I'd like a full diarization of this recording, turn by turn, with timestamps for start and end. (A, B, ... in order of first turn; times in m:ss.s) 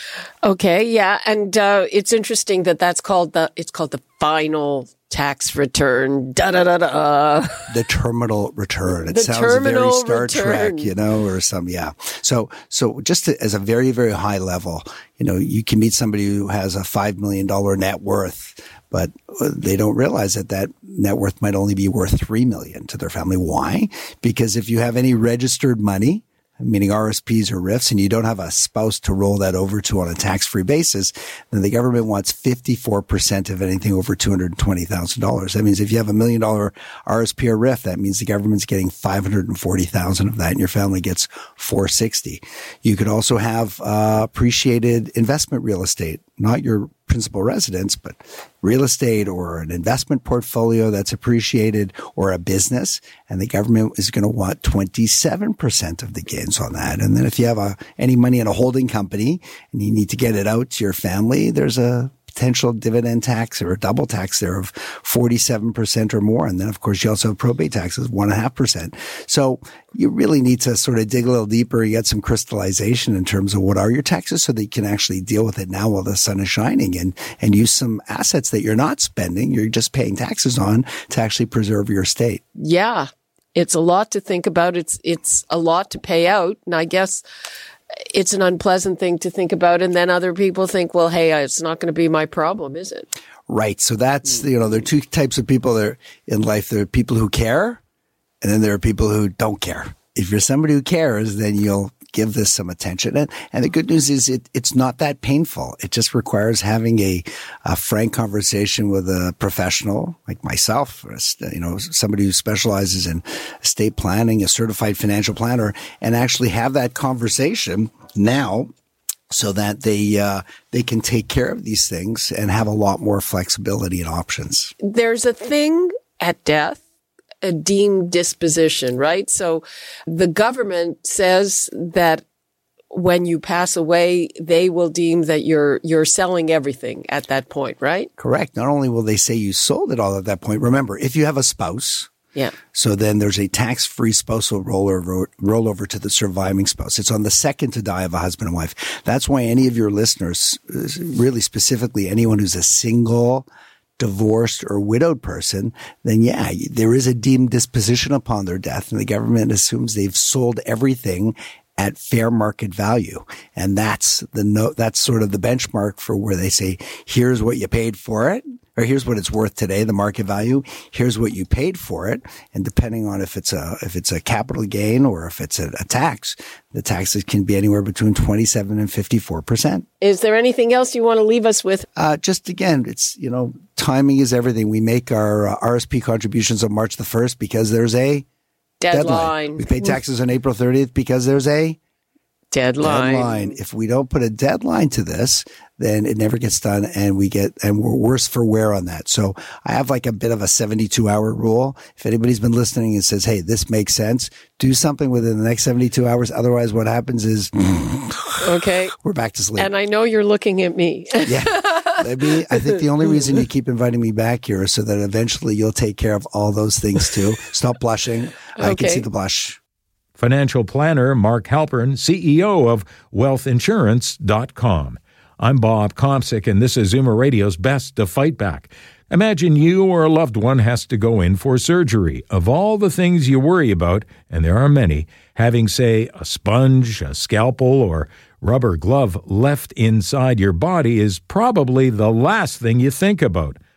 0:00.4-0:07.7 A
0:07.7-1:22.4 B
0:09.1-0:10.9 A
1:22.6-1:27.2 A
1:28.1-1:33.1 A
1:33.5-1:37.8 B
1:38.4-1:58.7 B
1:59.3-2:04.7 B
2:04.8-2:06.8 A
2:07.4-2:12.2 A
2:12.9-2:18.1 A
2:18.2-2:22.1 B
2:22.7-2:33.5 B
2:34.0-2:59.9 B
3:00.0-3:01.9 A
3:02.0-3:08.2 B
3:08.8-3:10.0 A
3:08.9-3:11.8 B
3:12.5-3:13.5 A
3:12.8-3:29.7 B
3:28.4-3:28.9 A
3:29.6-3:31.9 A
3:31.2-3:39.6 B
3:38.6-3:39.1 A
3:40.2-4:03.6 C